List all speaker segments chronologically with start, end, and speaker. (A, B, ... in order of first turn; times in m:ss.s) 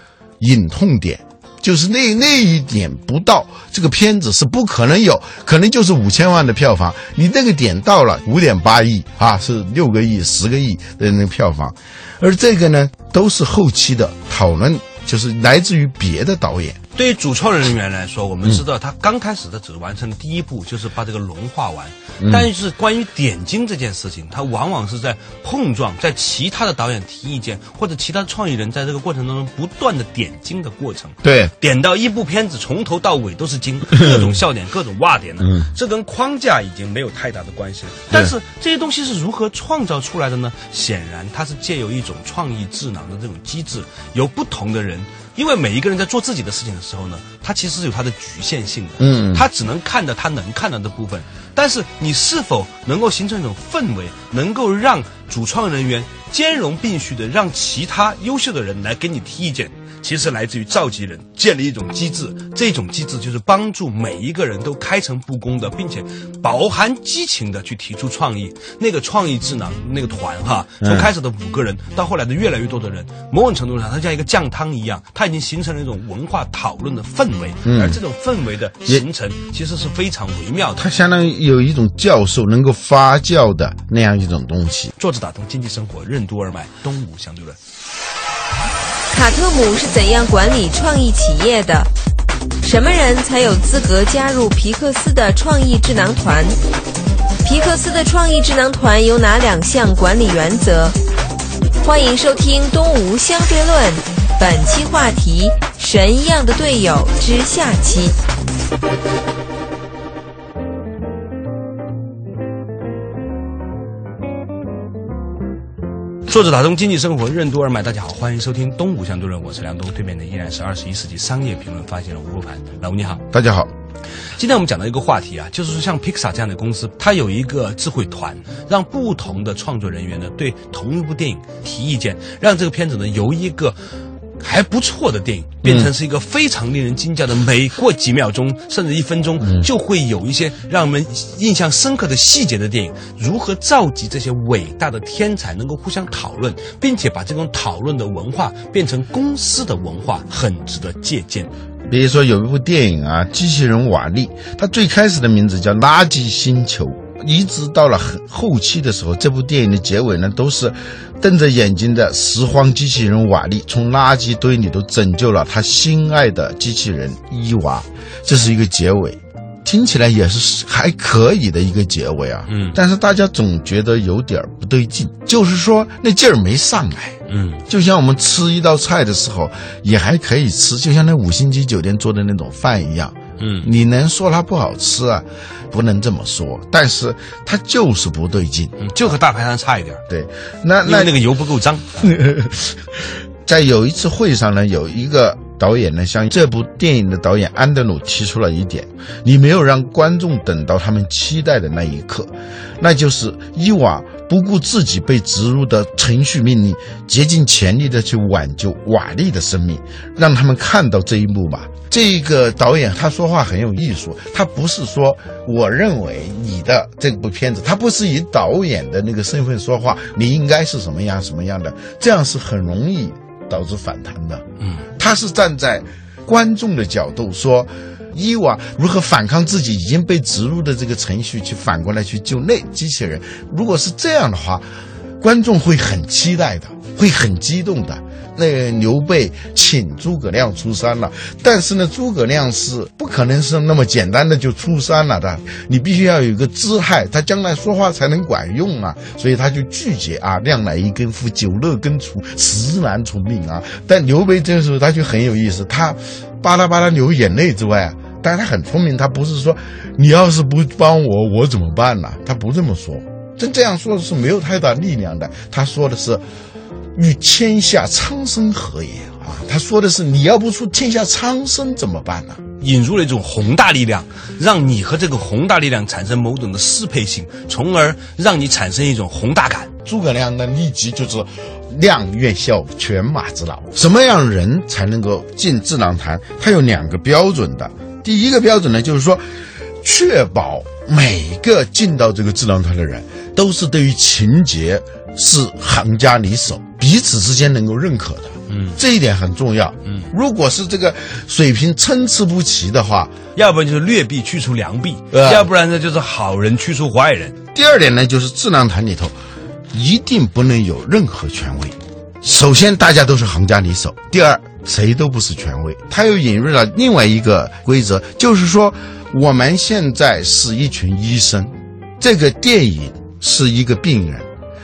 0:00.4-0:16.8 A
0:16.9-1:20.9 B
0:22.2-0:22.5 A
0:31.2-0:31.5 A
0:33.9-0:34.3 A
0:35.4-0:35.7 A
0:49.0-0:49.4 A
1:10.8-1:11.1 A
1:17.6-1:18.0 A
1:20.8-1:24.9 A
1:25.0-1:27.6 B
1:29.1-1:31.9 C
1:32.6-1:36.6 C
1:37.4-1:41.0 C
1:41.8-1:48.2 C
1:56.3-2:03.2 B
2:03.3-2:03.7 A
2:04.4-2:13.8 B
2:14.4-2:31.5 B
2:15.6-2:15.9 A
2:19.4-2:19.7 A
2:31.9-3:08.8 A
2:52.5-2:52.8 B
2:57.3-2:57.6 B
3:03.4-3:03.7 B
3:08.8-3:10.0 B
3:10.1-3:11.2 A
3:10.8-3:12.1 B
3:12.0-3:54.6 A
3:55.2-4:26.2 A
4:26.9-4:32.4 A
4:32.6-4:39.7 B
4:39.8-5:03.1 A
4:58.5-4:58.8 B
5:03.4-5:07.4 B
5:05.1-5:05.5 A
5:07.5-5:09.1 A
5:09.7-5:24.3 A